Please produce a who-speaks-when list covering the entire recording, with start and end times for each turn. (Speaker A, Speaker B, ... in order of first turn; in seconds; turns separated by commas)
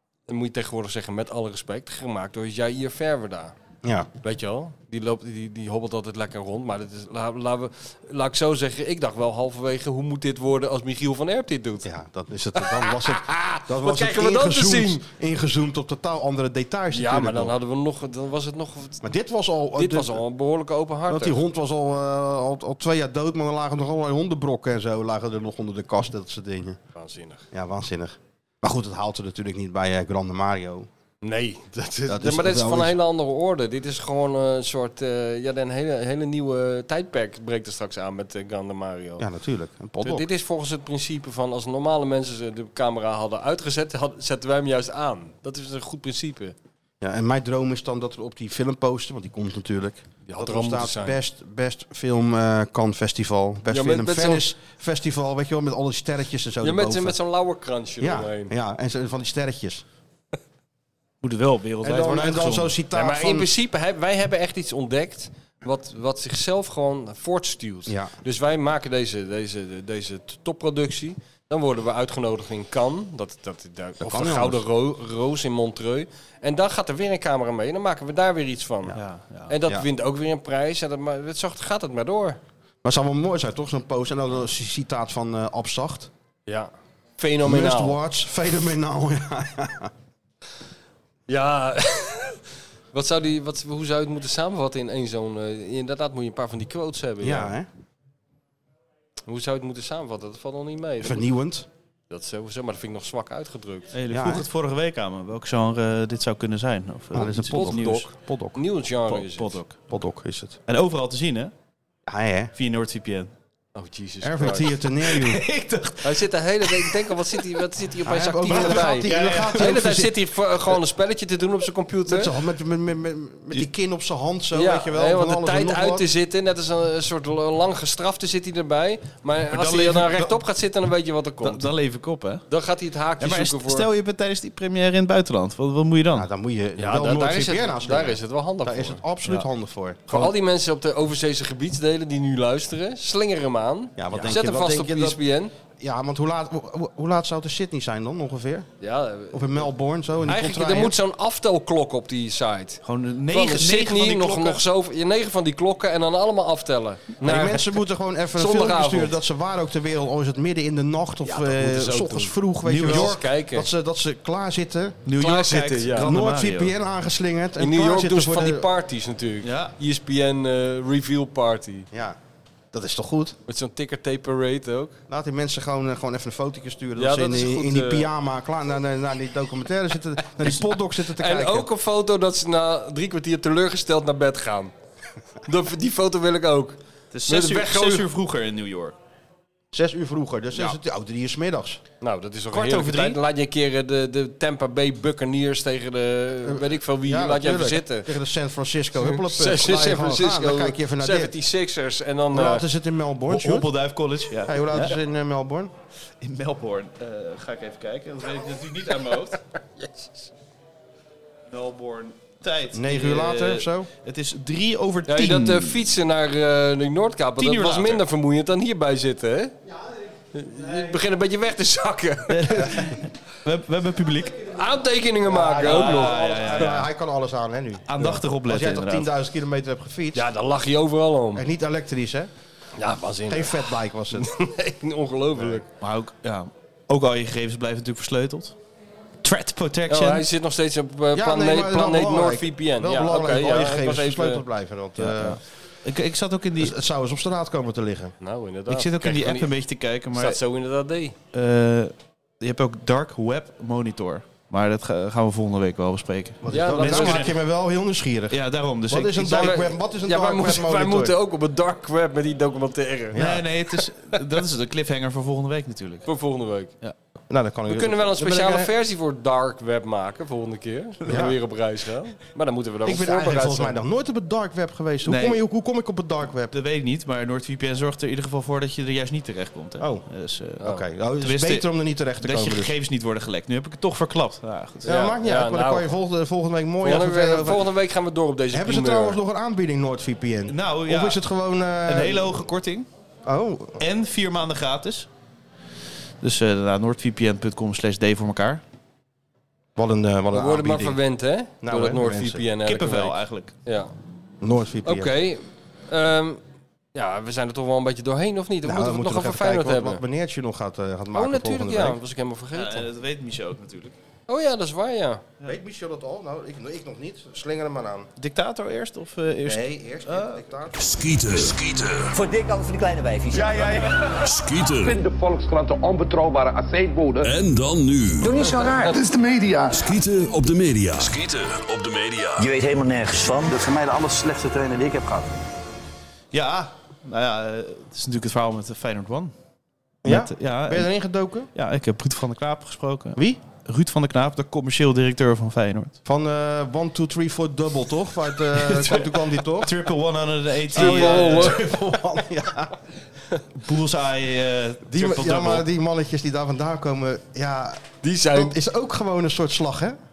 Speaker A: 0.3-3.5, Speaker B: 3.8-4.1, Speaker A: 4.2-11.9, Speaker B: 11.8-17.5, Speaker A: 12.6-15.0, Speaker A: 16.9-19.1, Speaker B: 19.0-20.2, Speaker A: 19.7-21.4, Speaker B: 21.1-26.8, Speaker A: 26.9-27.4, Speaker B: 27.5-30.9, Speaker A: 31.2-39.3, Speaker B: 32.1-33.0, Speaker B: 39.2-40.3, Speaker A: 40.0-46.5, Speaker B: 47.0-57.2, Speaker A: 50.3-51.2, Speaker A: 53.7-54.5, Speaker A: 56.6-58.5, Speaker B: 58.0-59.9, Speaker C: 61.2-62.7, Speaker B: 61.8-63.5, Speaker A: 62.9-79.0, Speaker B: 67.9-68.1, Speaker B: 74.0-74.6, Speaker C: 79.0-79.5, Speaker A: 79.5-82.4, Speaker B: 82.8-86.1, Speaker A: 86.5-88.0, Speaker B: 87.4-89.9, Speaker A: 91.3-92.4, Speaker A: 92.9-97.5, Speaker B: 97.2-97.7, Speaker A: 99.3-101.3, Speaker B: 101.0-101.7, Speaker A: 102.1-103.9, Speaker C: 103.9-108.1, Speaker B: 104.1-104.5, Speaker B: 107.1-108.6, Speaker A: 107.5-109.6, Speaker C: 109.1-109.8, Speaker B: 109.9-110.6, Speaker C: 110.7-111.5, Speaker B: 112.1-112.5, Speaker C: 112.5-113.3, Speaker A: 113.7-114.7, Speaker B: 114.2-115.4, Speaker C: 115.0-117.6, Speaker A: 116.0-122.3, Speaker B: 118.0-120.1, Speaker C: 118.5-119.9, Speaker B: 122.1-126.0, Speaker A: 124.5-131.7, Speaker C: 129.5-130.4, Speaker C: 131.4-132.4, Speaker A: 132.5-133.9, Speaker C: 133.2-136.3, Speaker B: 136.1-140.3, Speaker A: 136.8-139.0, Speaker A: 140.1-145.5, Speaker B: 144.0-145.2, Speaker B: 145.7-148.7, Speaker A: 148.8-149.7, Speaker B: 149.3-151.0, Speaker A: 150.3-157.7, Speaker C: 152.8-154.6, Speaker B: 157.2-165.0, Speaker A: 158.3-159.2, Speaker A: 161.2-162.3, Speaker C: 162.6-163.2, Speaker A: 162.8-163.7, Speaker C: 165.1-166.7, Speaker A: 165.2-166.1, Speaker B: 166.0-168.7, Speaker A: 167.6-171.9, Speaker C: 169.4-169.7, Speaker B: 171.9-172.2, Speaker B: 172.7-173.4, Speaker A: 173.5-175.0, Speaker B: 175.1-181.7, Speaker A: 177.0-178.1, Speaker A: 181.2-184.7, Speaker A: 185.4-188.1, Speaker C: 187.1-188.9, Speaker B: 189.7-191.8, Speaker A: 192.0-198.1, Speaker C: 192.5-193.2, Speaker B: 196.4-201.3, Speaker A: 199.0-202.6, Speaker B: 202.3-203.7, Speaker C: 203.3-205.0, Speaker B: 204.4-205.7, Speaker C: 206.2-209.4, Speaker A: 209.8-210.1, Speaker C: 211.5-215.8, Speaker B: 212.7-213.9, Speaker A: 215.1-219.5, Speaker C: 217.4-218.0, Speaker A: 220.3-222.9, Speaker C: 222.3-224.5, Speaker A: 224.5-226.6, Speaker B: 225.3-230.3, Speaker C: 225.6-226.9, Speaker C: 227.9-229.1, Speaker A: 230.1-231.4, Speaker B: 231.3-232.3, Speaker A: 232.8-235.7, Speaker B: 233.3-234.3, Speaker C: 235.8-238.6, Speaker C: 239.2-240.3, Speaker A: 239.9-244.4, Speaker B: 241.1-245.4, Speaker C: 245.0-246.8, Speaker B: 246.6-248.1, Speaker A: 248.2-249.5, Speaker C: 248.7-250.4, Speaker A: 250.1-251.1, Speaker C: 251.3-257.3, Speaker B: 256.4-261.1, Speaker A: 256.5-257.3, Speaker C: 258.3-259.5, Speaker A: 259.2-263.8, Speaker B: 263.1-263.4, Speaker C: 263.1-266.1, Speaker A: 266.1-266.7, Speaker B: 267.3-268.7, Speaker A: 267.7-273.8, Speaker B: 271.1-271.4, Speaker B: 272.8-276.5, Speaker C: 275.1-275.4, Speaker C: 276.5-280.6, Speaker B: 279.8-280.0, Speaker B: 280.6-282.8, Speaker C: 281.2-281.7, Speaker C: 282.2-284.9, Speaker B: 284.8-287.7, Speaker A: 284.9-285.9, Speaker A: 286.8-289.2, Speaker B: 288.5-292.4, Speaker C: 290.5-291.2, Speaker C: 291.8-292.9, Speaker B: 293.2-293.8, Speaker C: 293.8-295.1, Speaker C: 296.2-298.6, Speaker B: 299.8-301.0, Speaker A: 300.3-303.9, Speaker B: 301.6-302.4, Speaker C: 302.6-303.5, Speaker B: 304.4-305.1, Speaker A: 304.8-306.4, Speaker A: 306.9-310.0, Speaker B: 308.6-312.0, Speaker A: 311.1-312.9, Speaker C: 312.5-313.9, Speaker A: 314.3-315.2, Speaker B: 315.4-318.1, Speaker C: 318.2-320.4, Speaker B: 319.4-320.8, Speaker D: 320.8-322.2, Speaker E: 322.1-323.6, Speaker F: 323.3-324.1, Speaker D: 324.1-325.0, Speaker F: 324.8-327.3, Speaker D: 327.2-328.5, Speaker F: 328.2-330.0, Speaker E: 328.5-328.9, Speaker D: 329.7-332.5, Speaker E: 332.4-333.5, Speaker F: 333.5-335.3, Speaker C: 336.3-339.3, Speaker B: 340.0-341.5, Speaker C: 340.0-340.9, Speaker C: 341.5-345.9, Speaker B: 346.0-349.7, Speaker C: 348.5-351.6, Speaker B: 350.7-352.8, Speaker A: 350.8-351.6, Speaker C: 353.6-355.7, Speaker B: 354.9-360.0, Speaker A: 358.0-358.6